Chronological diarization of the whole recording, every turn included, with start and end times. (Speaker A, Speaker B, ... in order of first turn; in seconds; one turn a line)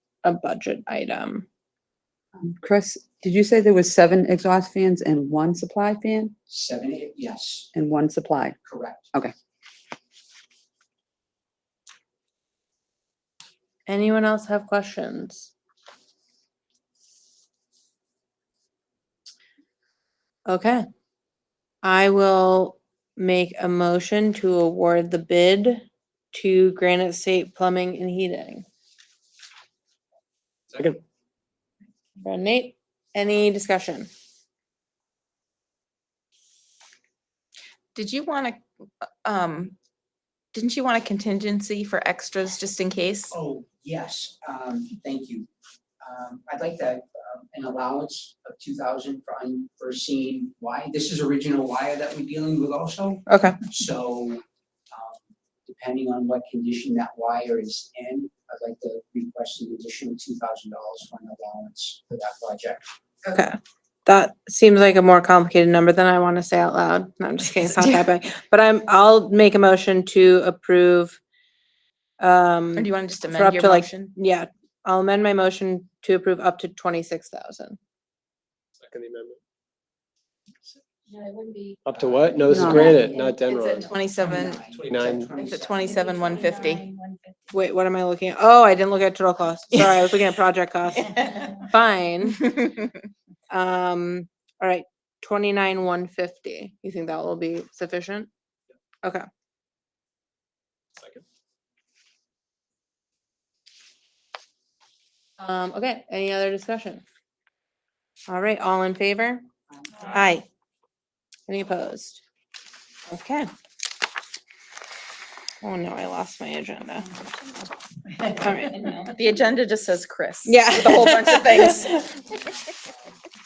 Speaker A: 0.2-1.4
Speaker B: 2.4-6.3
Speaker C: 6.5-7.7
Speaker B: 7.7-8.6
Speaker C: 8.6-9.1
Speaker A: 13.9-15.5
Speaker A: 20.5-20.9
Speaker A: 21.8-28.6
Speaker D: 30.7-31.0
Speaker A: 32.2-34.1
Speaker E: 38.0-39.7
Speaker E: 40.5-43.3
Speaker C: 43.3-45.5
Speaker C: 46.0-62.9
Speaker A: 53.3-53.6
Speaker A: 63.3-71.2
Speaker A: 72.2-77.8
Speaker E: 72.8-74.1
Speaker D: 78.8-79.4
Speaker F: 81.1-81.8
Speaker D: 81.8-85.3
Speaker C: 82.0-83.2
Speaker B: 82.5-83.0
Speaker F: 82.8-83.4
Speaker E: 83.5-84.6
Speaker C: 83.7-86.5
Speaker E: 85.4-86.8
Speaker F: 85.9-87.4
Speaker A: 87.5-92.5
Speaker E: 89.7-90.1
Speaker E: 91.0-91.6
Speaker E: 92.3-92.8
Speaker A: 93.5-98.3
Speaker D: 101.0-101.2
Speaker A: 105.4-107.0
Speaker A: 108.3-109.5
Speaker C: 109.8-110.2
Speaker A: 110.0-110.5
Speaker A: 111.5-112.2
Speaker A: 113.1-113.5
Speaker A: 115.6-117.1
Speaker A: 118.3-118.9
Speaker E: 119.0-122.1
Speaker A: 120.5-122.0
Speaker C: 122.5-122.9